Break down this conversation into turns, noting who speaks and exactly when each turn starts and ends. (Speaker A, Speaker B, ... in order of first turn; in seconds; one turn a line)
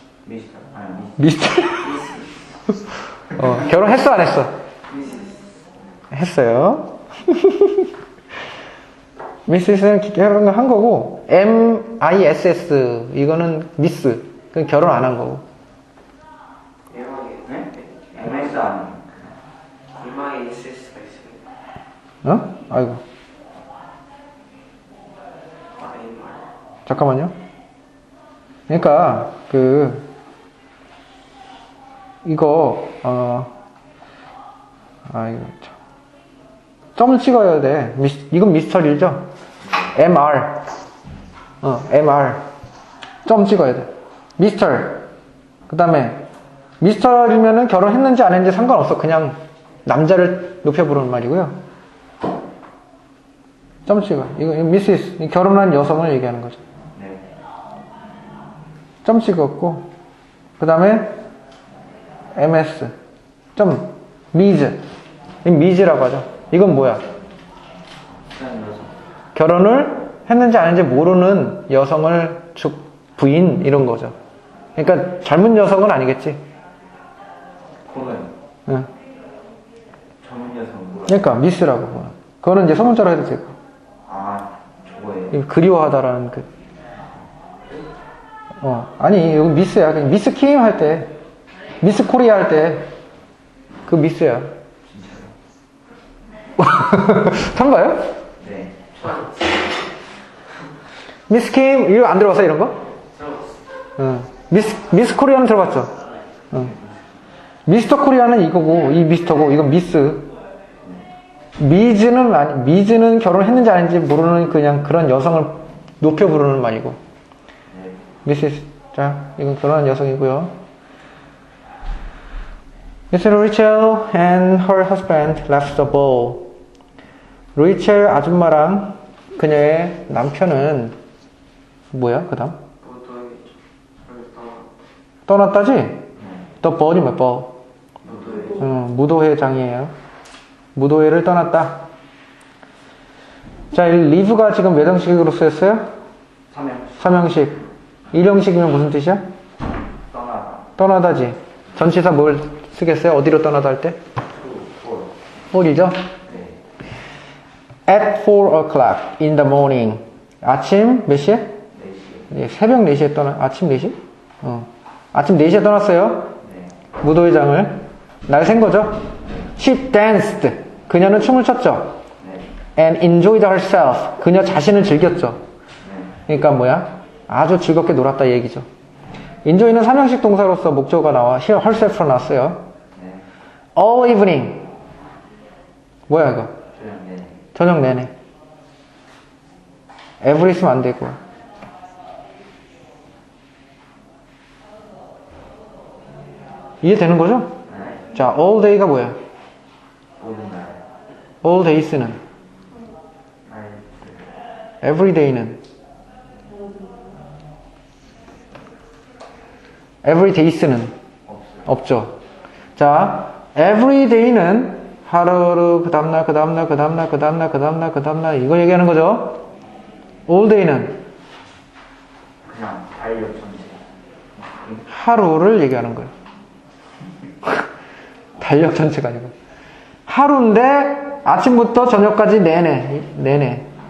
Speaker A: 0.2-1.2
Speaker B: 1.2-2.1
Speaker C: 1.8-2.2
Speaker B: 3.3-4.5
Speaker C: 4.9-5.5
Speaker B: 6.1-7.8
Speaker B: 9.5-15.4
Speaker C: 16.9-18.5
Speaker A: 17.4-19.2
Speaker C: 19.9-21.4
Speaker B: 22.2-23.0
Speaker C: 25.8-26.4
Speaker B: 26.9-27.3
Speaker B: 28.7-30.1
Speaker B: 32.2-33.5
Speaker B: 35.1-35.7
Speaker B: 37.0-39.3
Speaker B: 39.8-40.7
Speaker B: 41.6-42.5
Speaker B: 43.3-45.1
Speaker B: 45.7-46.2
Speaker B: 46.8-51.5
Speaker B: 53.9-56.6
Speaker A: 57.0-57.2
Speaker B: 59.0-59.9
Speaker B: 60.6-61.2
Speaker B: 62.3-62.9
Speaker B: 63.6-64.8
Speaker B: 65.4-67.0
Speaker A: 68.1-69.0
Speaker B: 69.3-74.1
Speaker B: 74.8-76.4
Speaker A: 77.9-78.3
Speaker A: 80.2-81.3
Speaker B: 81.1-83.6
Speaker A: 84.0-85.4
Speaker B: 85.3-86.5
Speaker B: 88.6-91.1
Speaker B: 91.8-92.9
Speaker B: 93.9-94.5
Speaker A: 94.9-95.3
Speaker B: 96.6-98.1
Speaker A: 98.4-99.1
Speaker C: 99.0-99.6
Speaker B: 101.3-102.9
Speaker C: 103.1-103.6
Speaker B: 104.0-106.0
Speaker B: 107.7-110.3
Speaker B: 111.6-117.0
Speaker A: 117.7-118.0
Speaker B: 118.2-120.6
Speaker B: 123.1-126.5
Speaker B: 127.5-130.9
Speaker B: 131.9-132.6
Speaker C: 132.8-134.7
Speaker B: 135.3-136.1
Speaker B: 136.6-137.6
Speaker A: 138.0-138.6
Speaker B: 138.5-139.9
Speaker B: 140.7-141.9
Speaker B: 143.7-145.9
Speaker A: 146.5-147.1
Speaker B: 147.0-149.2
Speaker A: 150.1-150.7
Speaker B: 150.8-154.0
Speaker A: 154.3-155.1
Speaker B: 155.5-156.1
Speaker A: 156.2-156.6
Speaker B: 157.8-161.6
Speaker A: 161.7-162.3
Speaker B: 162.3-166.3
Speaker A: 166.4-166.7
Speaker B: 167.0-172.0
Speaker A: 172.2-172.5
Speaker B: 172.8-175.4
Speaker A: 175.8-176.2
Speaker B: 176.3-178.7
Speaker B: 179.4-182.7
Speaker A: 182.9-183.2
Speaker B: 183.8-184.7
Speaker B: 186.1-186.6
Speaker A: 186.8-187.4
Speaker B: 187.5-188.1
Speaker B: 190.2-191.2
Speaker B: 196.8-197.6
Speaker A: 197.7-198.1
Speaker B: 198.1-199.2
Speaker A: 200.2-200.8
Speaker B: 201.4-202.2
Speaker A: 203.4-204.3
Speaker B: 204.8-205.6
Speaker B: 210.0-210.9
Speaker A: 211.3-211.6
Speaker B: 211.6-212.1
Speaker B: 212.8-219.4
Speaker B: 220.3-221.0
Speaker A: 222.4-223.8
Speaker A: 224.4-224.8
Speaker B: 224.8-226.1
Speaker B: 228.4-229.3
Speaker B: 230.1-233.7